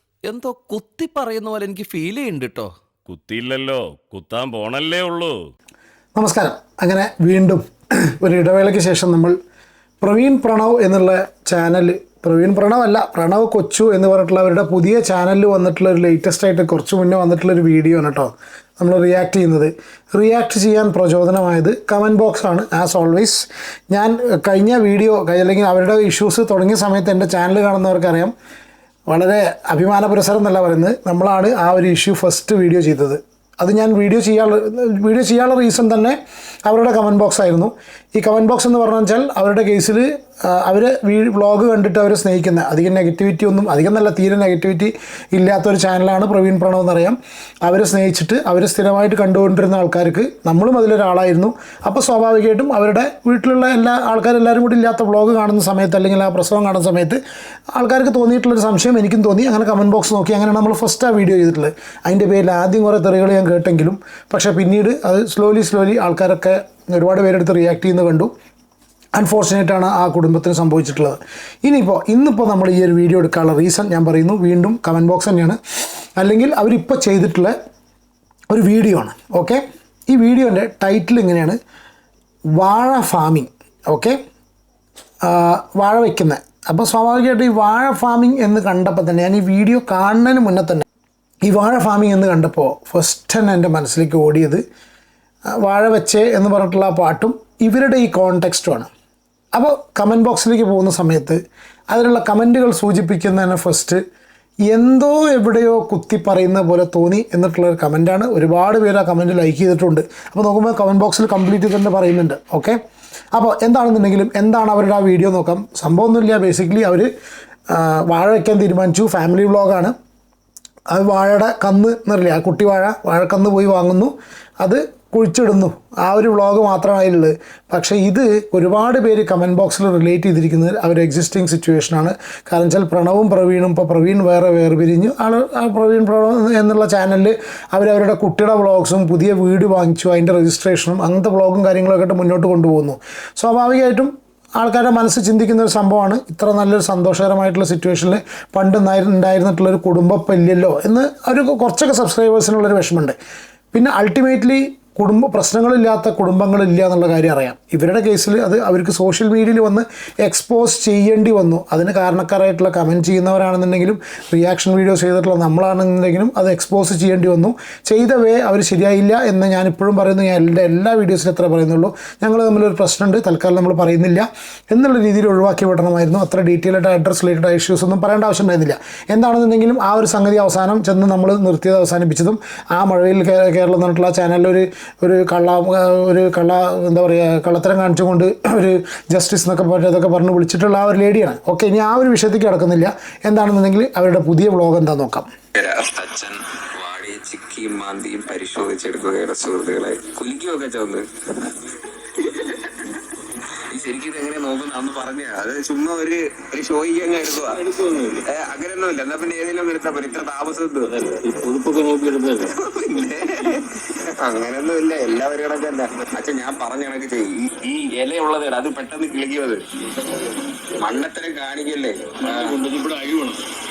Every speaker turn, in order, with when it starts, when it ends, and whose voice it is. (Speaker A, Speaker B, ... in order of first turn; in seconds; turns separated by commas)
Speaker A: 0.2-2.7, Speaker B: 3.0-5.4, Speaker C: 6.2-9.3, Speaker C: 10.0-28.3, Speaker C: 29.1-57.2, Speaker C: 57.8-68.3, Speaker C: 69.1-75.6, Speaker C: 76.2-77.5, Speaker C: 78.5-81.6, Speaker C: 82.6-84.2, Speaker C: 85.2-90.8, Speaker C: 91.4-94.6, Speaker C: 95.6-98.9, Speaker C: 99.5-104.0, Speaker C: 104.7-112.8, Speaker C: 113.3-117.1, Speaker C: 117.7-119.9, Speaker C: 120.9-153.2, Speaker C: 153.7-195.3, Speaker D: 195.6-201.0, Speaker D: 202.2-202.7, Speaker D: 203.7-207.6, Speaker E: 207.5-208.2, Speaker D: 208.3-210.9, Speaker E: 210.8-212.5, Speaker D: 212.5-219.6, Speaker D: 220.8-222.5, Speaker E: 222.2-223.4